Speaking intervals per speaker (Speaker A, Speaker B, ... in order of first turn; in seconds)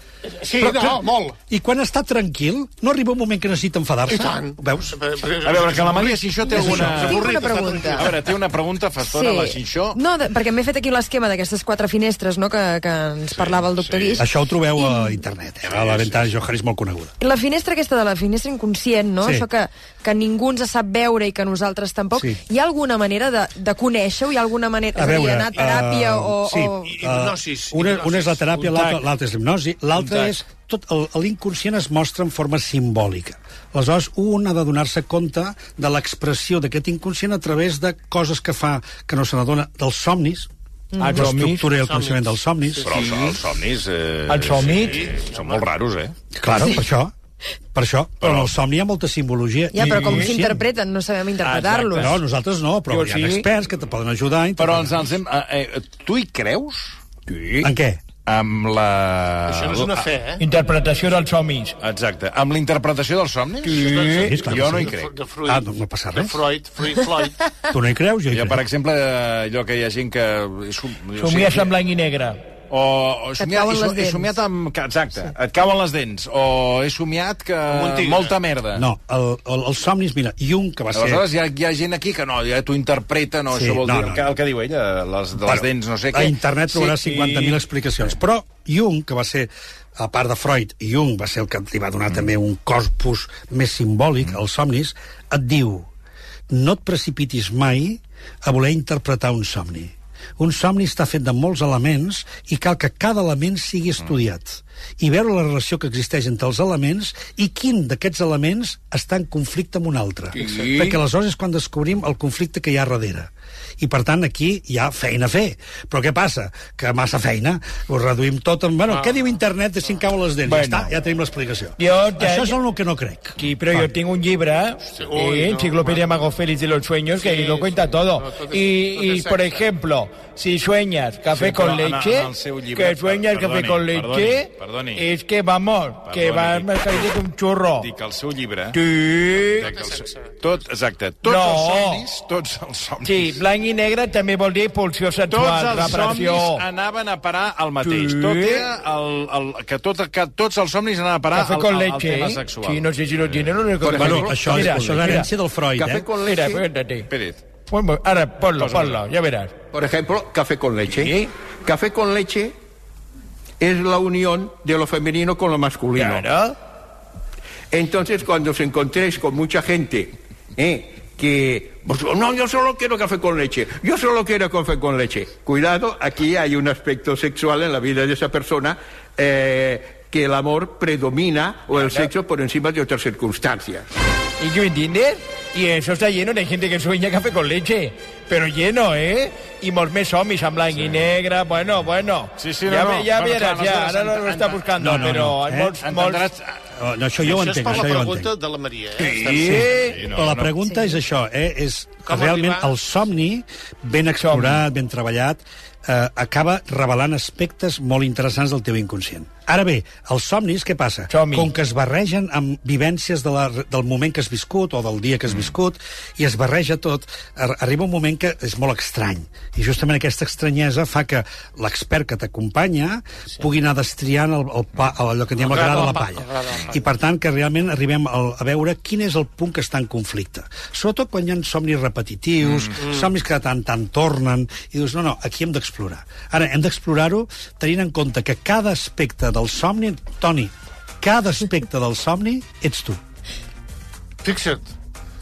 Speaker A: 0.2-1.4, 4.1-8.2, 26.8-28.7, 41.8-42.9, 44.7-45.6, 59.5-60.4, 63.7-67.3, 77.7-78.3, 125.0-126.1, 127.2-129.7, 139.5-140.4, 197.2-199.8, 202.1-202.8, 225.4-226.9, 232.8-233.1, 244.2-244.7
Speaker B: 0.6-5.0, 6.5-7.2, 14.2-17.1, 24.9-40.5, 41.1-42.9, 46.4-47.1, 47.7-50.6, 51.9-55.1, 57.6-58.0, 64.1-64.9, 65.5-66.4, 67.7-68.6, 78.8-81.3, 83.5-84.3, 85.4-95.9, 96.5-123.9, 153.9-156.1, 194.8-195.8, 196.8-198.3, 199.3-243.0
Speaker C: 5.4-10.0, 13.3-14.3, 15.7-16.3, 42.8-46.2, 48.2-48.5, 54.6-57.7, 58.3-60.1, 61.8-65.1, 68.3-71.7, 72.7-78.9, 80.9-87.6, 120.5-120.8, 131.3-135.1, 136.1-137.1, 137.8-138.8, 139.5-143.4, 145.3-153.4, 157.1-157.4, 158.6-159.0, 192.4-196.6, 199.7-200.5, 232.4-232.8
Speaker D: 6.5-8.2, 9.0-15.2, 17.2-26.9, 41.0-41.3, 49.7-52.2, 73.4-74.3
Speaker E: 28.6-29.0, 30.0-30.4, 41.0-41.7, 42.9-43.4, 44.3-45.1, 49.8-50.4, 51.4-52.2, 52.9-53.5, 60.4-61.8, 63.6-64.5, 71.2-72.4, 110.4-111.0, 121.8-122.6, 123.4-137.9, 138.7-139.7, 141.2-142.1, 143.0-146.6, 147.8-148.7, 151.3-155.3, 156.2-157.1, 157.7-159.6, 160.9-161.3, 166.0-166.6, 181.7-182.1, 184.4-196.3, 199.0-200.0, 204.2-204.6, 211.1-211.5
Speaker F: 153.8-155.2, 155.8-156.7, 159.7-162.6, 163.6-166.3, 167.7-183.9